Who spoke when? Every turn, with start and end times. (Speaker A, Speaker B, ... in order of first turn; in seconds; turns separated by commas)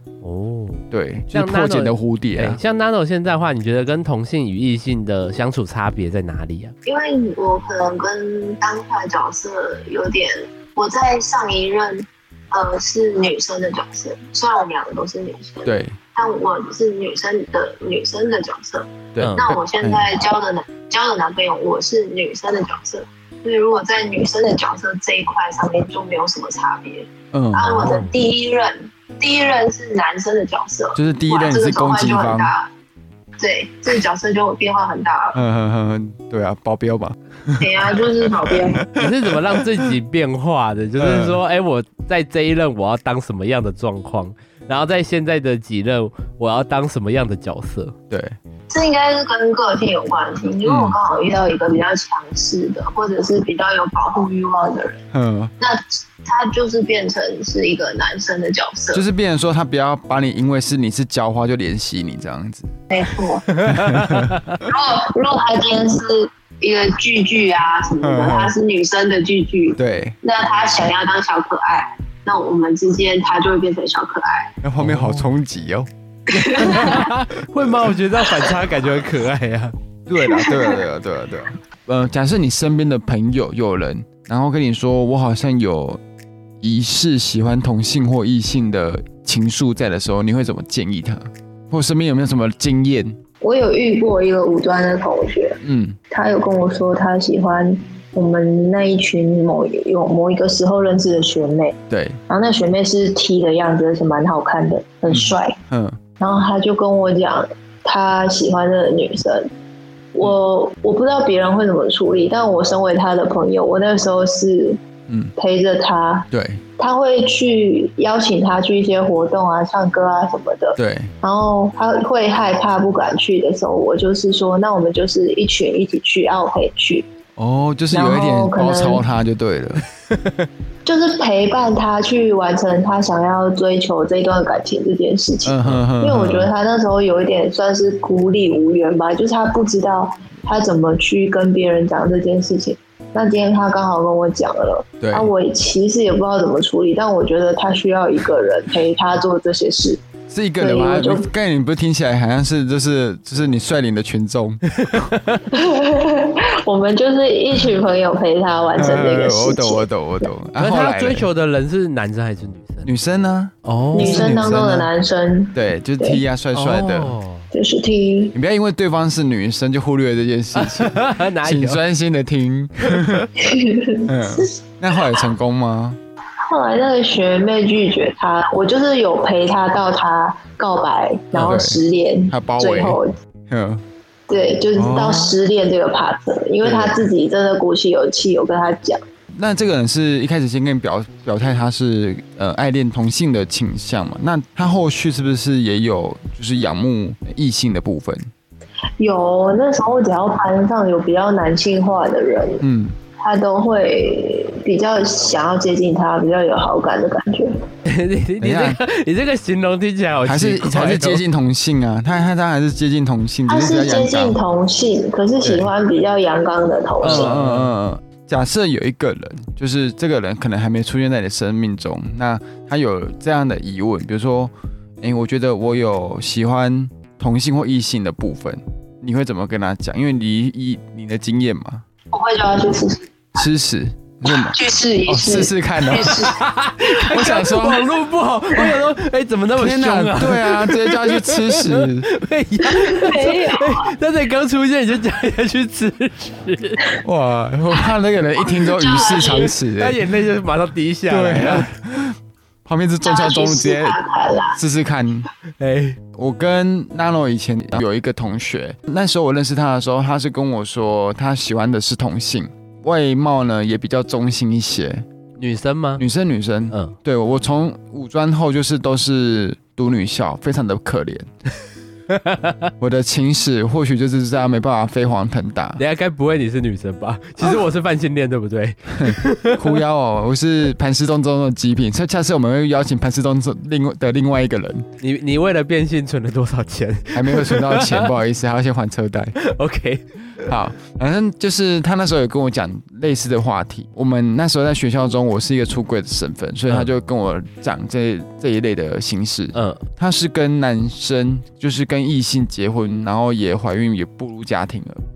Speaker A: 0.2-6.8, Speaker B: 0.9-2.6, Speaker C: 6.8-32.7, Speaker B: 15.7-16.0, Speaker B: 19.1-20.0, Speaker A: 19.2-19.5, Speaker B: 27.3-27.9, Speaker A: 27.8-28.1, Speaker B: 30.9-32.5, Speaker C: 33.4-35.4, Speaker B: 35.4-39.9, Speaker C: 37.6-38.9, Speaker A: 39.0-48.0, Speaker B: 41.0-41.4, Speaker B: 48.1-48.4, Speaker C: 48.7-55.0, Speaker B: 50.6-51.0, Speaker B: 55.1-55.5, Speaker C: 55.6-59.0, Speaker B: 58.9-62.7, Speaker C: 62.9-63.5, Speaker A: 63.5-64.6, Speaker B: 63.7-64.4, Speaker C: 64.6-74.5, Speaker B: 68.0-68.5, Speaker B: 69.8-70.2, Speaker B: 74.6-75.9, Speaker A: 74.8-75.3, Speaker C: 76.3-77.1, Speaker A: 76.3-79.8, Speaker B: 80.1-86.0, Speaker C: 80.2-80.8, Speaker B: 86.6-93.2, Speaker C: 93.4-101.8, Speaker B: 95.6-96.0, Speaker B: 101.9-102.2, Speaker C: 102.3-105.6, Speaker B: 105.1-106.0, Speaker C: 106.2-109.5, Speaker C: 110.1-114.8, Speaker B: 115.1-115.3, Speaker C: 115.4-127.1, Speaker B: 116.3-116.6, Speaker B: 120.8-121.1, Speaker B: 127.4-129.8, Speaker C: 127.9-129.0, Speaker A: 130.1-130.5, Speaker C: 130.8-150.0, Speaker B: 135.4-136.5, Speaker B: 145.0-145.3, Speaker B: 150.3-155.1, Speaker C: 150.6-151.3, Speaker A: 154.8-155.4, Speaker C: 155.5-159.9, Speaker B: 158.8-161.3, Speaker A: 160.6-162.9, Speaker B: 162.8-164.9, Speaker A: 163.6-164.4, Speaker C: 163.9-166.2, Speaker B: 165.5-167.2, Speaker A: 166.5-167.5, Speaker C: 167.5-168.4, Speaker B: 168.3-173.3, Speaker A: 170.6-171.8, Speaker A: 172.9-173.2, Speaker C: 173.4-174.6, Speaker B: 174.1-176.0, Speaker C: 176.5-183.1, Speaker B: 181.3-183.8, Speaker C: 184.3-189.0, Speaker B: 184.8-185.4, Speaker B: 186.6-187.0, Speaker B: 189.3-198.3, Speaker C: 199.0-202.7, Speaker B: 202.6-203.0, Speaker C: 203.2-207.6, Speaker A: 207.8-211.2, Speaker B: 208.4-208.8, Speaker B: 210.2-214.4, Speaker C: 213.5-217.3, Speaker B: 215.4-215.7, Speaker A: 217.0-217.7, Speaker B: 217.0-231.8, Speaker C: 232.1-233.5, Speaker B: 233.4-236.3, Speaker C: 234.3-236.4, Speaker A: 236.1-246.8, Speaker B: 237.0-237.9, Speaker B: 238.6-238.9, Speaker B: 239.6-242.1, Speaker C: 242.6-243.9, Speaker B: 247.0-250.0, Speaker C: 248.4-249.6, Speaker A: 249.8-251.7, Speaker B: 251.1-254.0, Speaker C: 253.0-254.6, Speaker B: 254.5-255.3, Speaker A: 255.6-256.0, Speaker B: 256.1-265.1, Speaker A: 265.4-266.0, Speaker B: 266.0-271.3, Speaker A: 272.1-272.7, Speaker B: 272.8-275.8, Speaker A: 275.8-279.8, Speaker B: 279.0-284.9, Speaker A: 285.0-288.1, Speaker B: 287.1-289.4, Speaker A: 289.4-290.5, Speaker B: 290.4-305.0, Speaker A: 299.5-299.8